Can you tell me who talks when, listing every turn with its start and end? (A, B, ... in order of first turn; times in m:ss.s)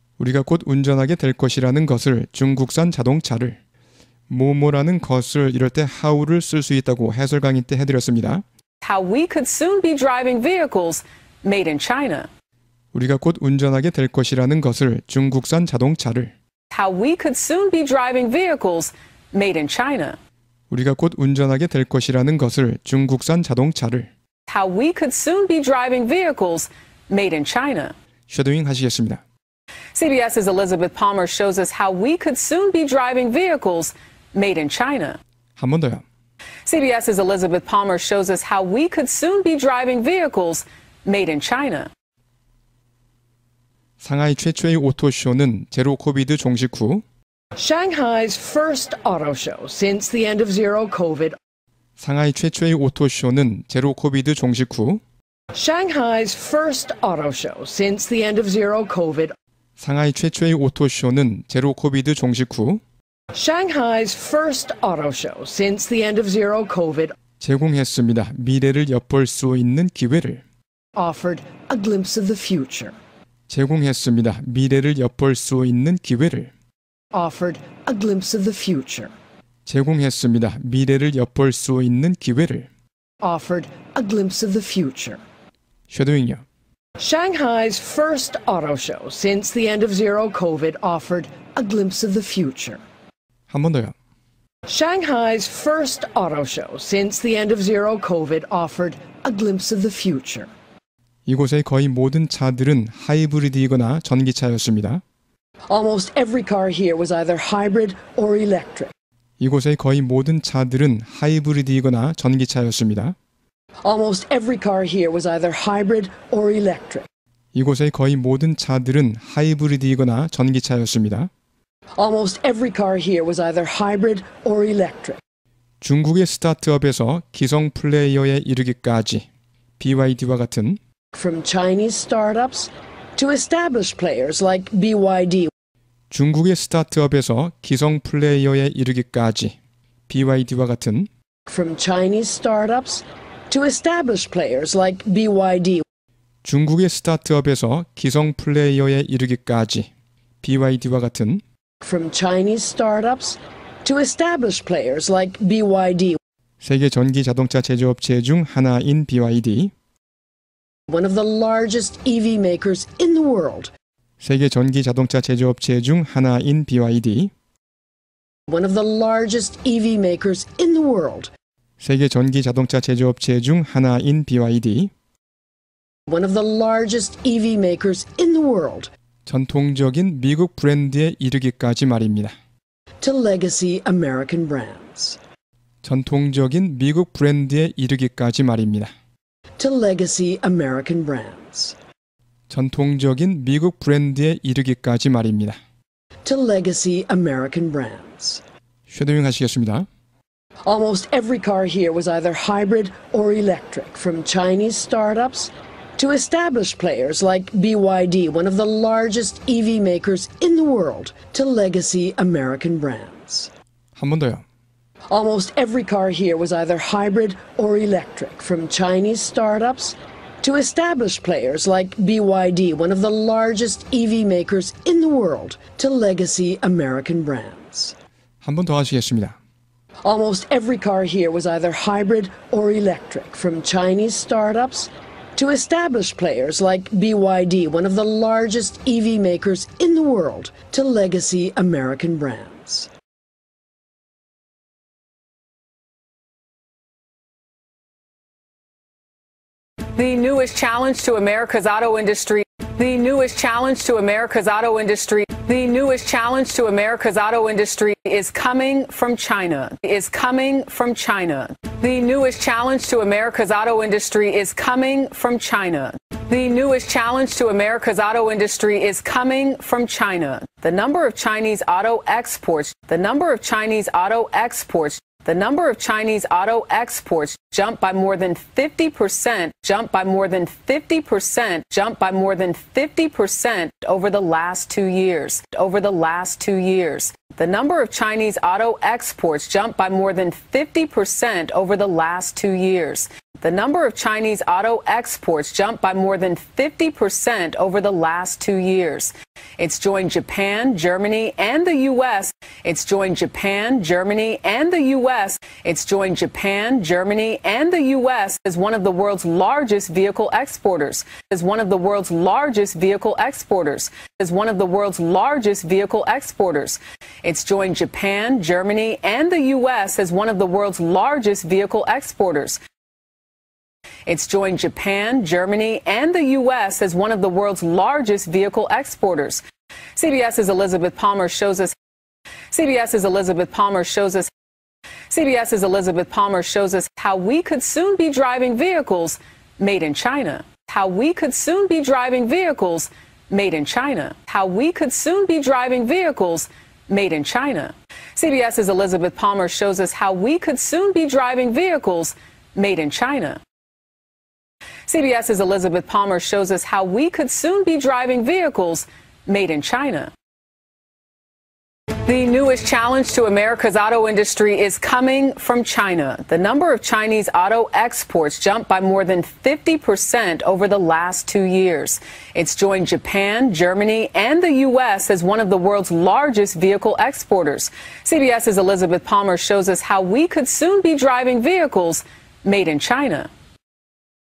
0:00.2-0:03.6 A
0:04.3-0:08.4 A
0:08.8-0:12.3 B
0:12.9-0:16.3 A
0:16.7-0:20.2 B
0:20.7-0:24.1 A
0:24.5-0:28.0 B
0:28.3-0:29.2 A
0:29.9-0:35.2 B
0:35.6-0:36.0 A
0:36.6-0:41.9 B
0:44.0-0:47.0 A
0:47.6-0:51.4 C
0:52.0-0:55.0 A
0:55.5-0:59.3 C
0:59.8-1:02.8 A
1:03.3-1:07.1 C
1:07.4-1:10.4 A
1:11.0-1:13.0 C
1:13.5-1:16.5 A
1:17.1-1:19.1 C
1:19.7-1:22.7 A
1:23.2-1:25.2 C
1:25.9-1:26.4 A
1:27.0-1:32.8 C
1:33.5-1:34.0 A
1:34.7-1:40.5 C
1:41.3-1:45.0 A
1:45.7-1:48.9 C
1:49.4-1:53.2 A
1:53.8-1:57.1 C
1:57.5-2:01.3 A
2:02.0-2:05.2 C
2:05.8-2:09.3 A
2:09.8-2:10.8 A
2:11.1-2:15.5 C
2:16.1-2:19.6 A
2:20.1-2:21.1 A
2:21.5-2:25.8 C
2:26.4-2:29.9 A
2:30.4-2:31.4 A
2:31.8-2:36.2 C
2:36.6-2:39.7 A
2:40.9-2:43.7 C
2:44.2-2:47.3 A
2:48.5-2:51.3 C
2:51.8-2:54.9 A
2:56.1-2:58.9 C
2:59.2-3:02.4 A
3:03.0-3:05.2 C
3:05.8-3:08.9 A
3:09.6-3:11.8 C
3:12.5-3:15.6 A
3:16.2-3:18.4 C
3:18.9-3:19.9 A
3:20.7-3:33.5 C
3:34.0-3:34.4 A
3:35.1-3:47.9 C
3:48.4-3:49.4 A
3:50.0-4:02.9 C
4:09.9-5:22.6 B
5:24.1-5:29.4 B
5:30.0-5:31.8 B
5:32.5-5:34.3 B
5:35.1-5:53.4 B
5:54.9-6:00.1 B
6:01.9-6:23.3 B